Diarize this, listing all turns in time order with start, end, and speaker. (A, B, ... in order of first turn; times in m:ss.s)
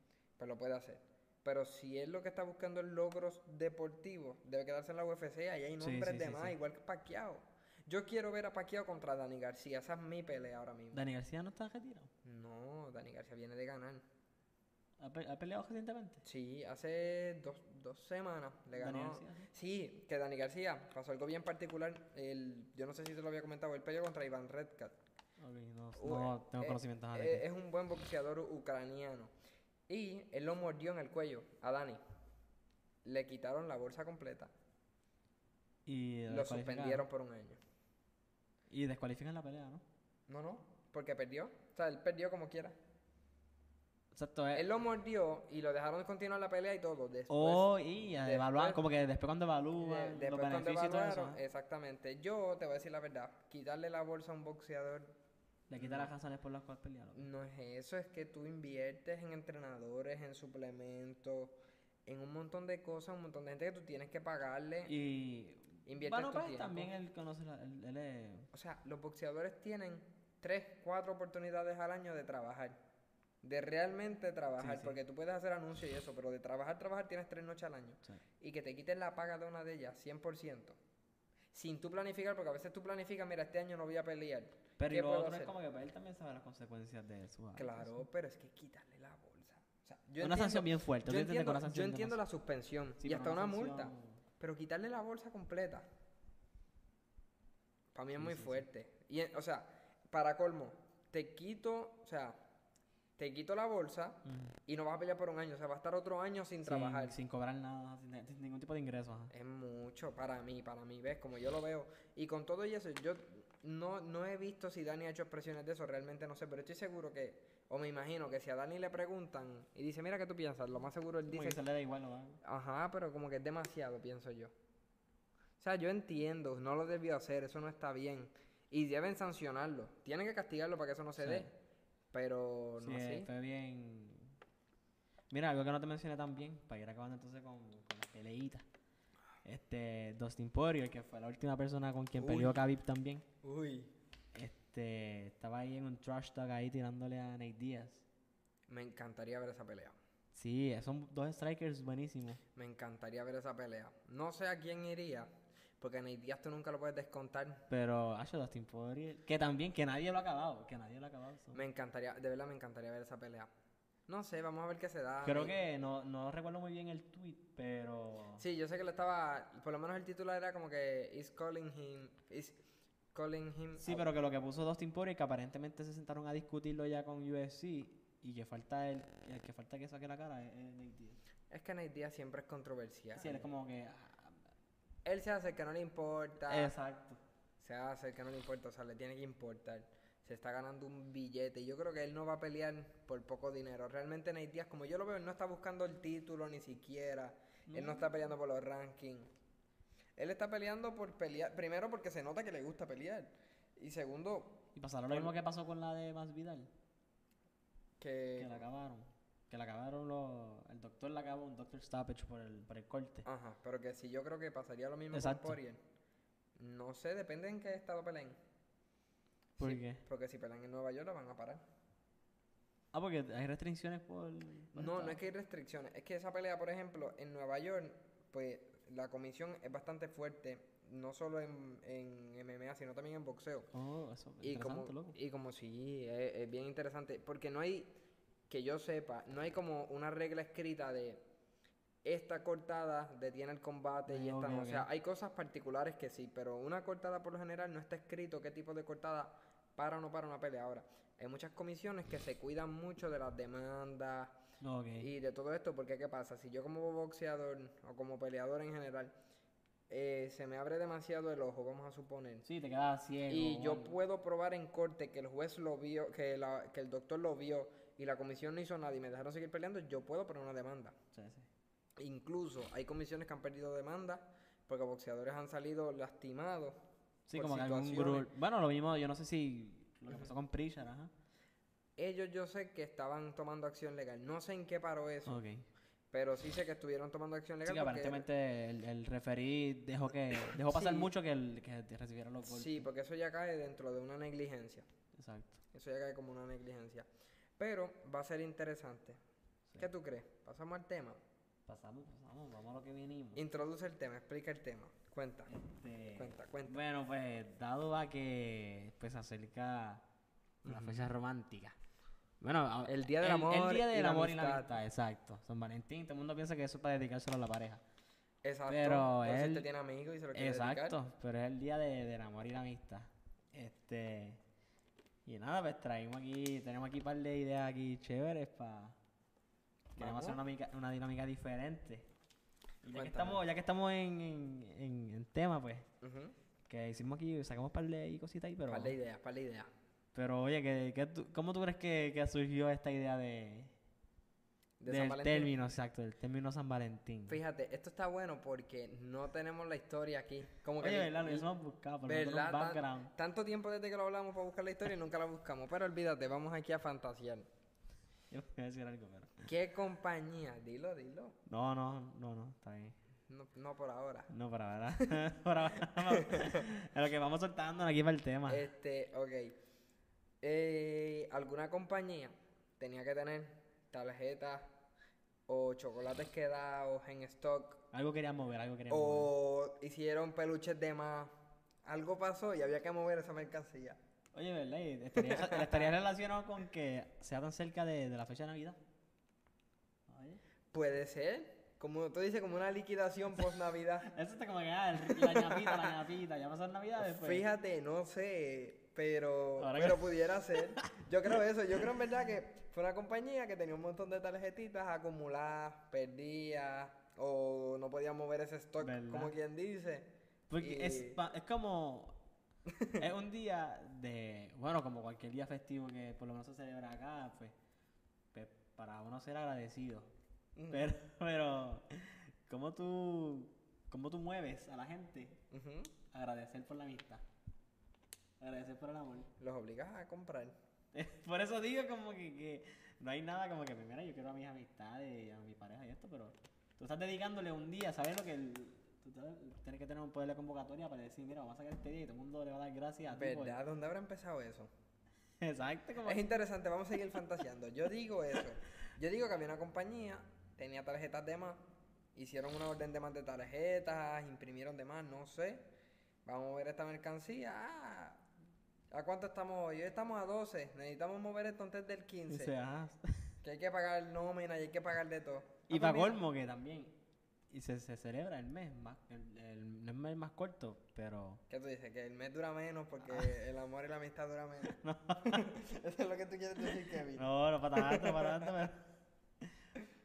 0:00.4-0:11.0 A
0:05.8-0:06.6 B
0:10.9-0:12.1 B
0:12.2-0:14.0 A
0:15.0-0:16.2 B
0:16.2-0:25.0 A
0:18.8-0:19.5 B
0:25.4-0:27.4 B
0:26.0-0:29.3 A
0:29.9-0:32.0 A
0:33.0-0:34.5 A
0:35.9-0:37.1 B
0:36.3-0:37.6 A
0:38.7-0:39.8 B
0:40.3-0:42.8 A
0:44.1-0:44.7 B
0:44.5-0:48.8 A
0:47.3-0:51.4 B
0:49.8-0:55.2 A
0:55.7-0:57.3 B
0:55.8-0:56.1 A
0:57.1-1:04.9 A
1:04.9-1:08.5 B
1:05.9-1:06.9 A
1:08.5-1:12.8 A
1:13.4-1:20.8 A
1:14.6-1:15.0 B
1:21.5-1:25.5 A
1:24.8-1:28.0 B
1:27.6-1:35.9 A
1:30.2-1:32.2 B
1:33.0-1:34.2 B
1:37.9-1:42.4 A
1:38.2-1:38.6 B
1:43.2-1:47.2 A
1:44.2-1:44.5 B
1:46.6-1:49.3 B
1:49.3-2:01.6 A
2:01.3-2:02.4 B
2:02.4-2:04.5 A
2:05.6-2:11.5 A
2:11.2-2:11.5 B
2:12.1-2:13.3 A
2:12.8-2:14.4 B
2:15.3-2:18.7 B
2:19.4-2:23.2 B
2:22.2-2:22.7 A
2:23.4-2:23.9 A
2:24.3-2:28.0 B
2:28.7-2:30.0 A
2:30.3-2:32.4 B
2:32.6-2:37.6 A
2:37.7-2:41.6 B
2:41.5-2:43.5 A
2:44.1-2:45.6 A
2:45.2-2:48.4 B
2:48.4-2:52.6 A
2:53.1-2:54.1 A
2:53.8-3:01.2 B
3:01.5-3:03.5 A
3:03.2-3:04.4 B
3:05.0-3:06.7 A
3:06.5-3:07.2 B
3:07.6-3:19.3 A
3:17.7-3:18.1 B
3:20.2-3:25.3 A
3:24.8-3:26.7 B
3:28.0-3:28.6 A
3:28.4-3:33.2 B
3:33.2-3:35.8 A
3:35.1-3:35.6 B
3:36.6-3:38.4 A
3:39.6-3:41.6 A
3:39.6-3:40.0 B
3:42.9-3:45.2 B
3:44.7-3:53.7 A
3:53.7-3:55.2 B
3:54.4-3:57.9 A
3:58.5-4:01.2 A
4:02.0-4:14.4 A
4:04.1-4:04.9 B
4:14.6-4:15.1 B
4:15.0-4:19.1 A
4:19.9-4:22.4 A
4:22.4-4:24.0 B
4:23.3-4:31.0 A
4:31.1-4:31.5 B
4:32.0-4:36.8 A
4:37.3-4:41.1 B
4:37.3-4:38.3 A
4:42.0-4:45.4 A
4:45.3-4:45.7 B
4:46.1-4:48.2 A
4:47.6-4:52.9 B
4:50.3-4:51.1 A
4:52.4-4:54.9 A
4:55.1-4:55.6 B
4:55.7-4:57.1 A
4:57.6-4:59.2 A
4:59.8-5:01.2 A
5:01.7-5:03.4 B
5:03.4-5:05.5 A
5:05.5-5:10.0 B
5:06.2-5:06.8 A
5:10.6-5:11.1 A
5:10.7-5:11.8 B
5:12.4-5:17.8 B
5:12.8-5:14.7 A
5:18.4-5:21.0 A
5:18.7-5:19.7 B
5:20.3-5:24.4 B
5:25.3-5:29.0 B
5:29.9-5:32.1 B
5:30.0-5:30.4 A
5:32.8-5:35.9 B
5:32.9-5:33.4 A
5:36.0-5:36.3 A
5:36.7-5:39.0 B
5:38.7-5:39.7 A
5:40.1-5:43.7 B
5:44.8-5:45.6 A
5:44.9-5:47.4 B
5:47.3-5:51.5 A
5:50.8-5:53.1 B
5:52.1-5:57.5 A
5:58.3-5:59.4 B
5:59.4-6:01.4 A
6:01.5-6:03.0 B
6:03.3-6:04.3 A
6:04.3-6:08.7 B
6:05.0-6:05.2 A
6:05.8-6:06.7 A
6:08.5-6:09.6 A
6:10.4-6:14.7 A
6:15.5-6:17.8 A
6:17.9-6:19.3 B
6:18.9-6:24.0 A
6:24.3-6:28.8 B
6:25.2-6:25.9 A
6:30.1-6:30.4 B
6:30.7-6:34.1 A
6:33.6-6:37.4 B
6:35.0-6:36.0 A
6:37.0-6:51.2 A
6:39.6-6:40.9 B
6:48.8-6:49.3 B
6:50.5-6:52.2 B
6:52.7-6:53.0 A
6:53.0-6:57.6 B
6:58.3-7:00.1 B
7:00.6-7:00.9 A
7:00.7-7:05.4 B
7:05.5-7:05.9 A
7:06.1-7:07.2 B
7:08.4-7:09.3 B
7:09.4-7:10.6 A
7:10.9-7:23.6 B
7:23.1-7:24.7 A
7:25.4-7:26.2 B
7:26.0-7:31.6 A
7:32.2-7:35.7 A
7:36.3-7:38.2 A
7:38.9-7:42.5 A
7:42.3-7:43.3 B
7:43.4-7:46.2 A
7:45.7-7:47.0 B
7:47.5-7:51.4 B
7:51.5-7:58.6 A
7:53.1-7:53.3 B
7:54.7-7:55.5 B
7:57.2-7:58.9 B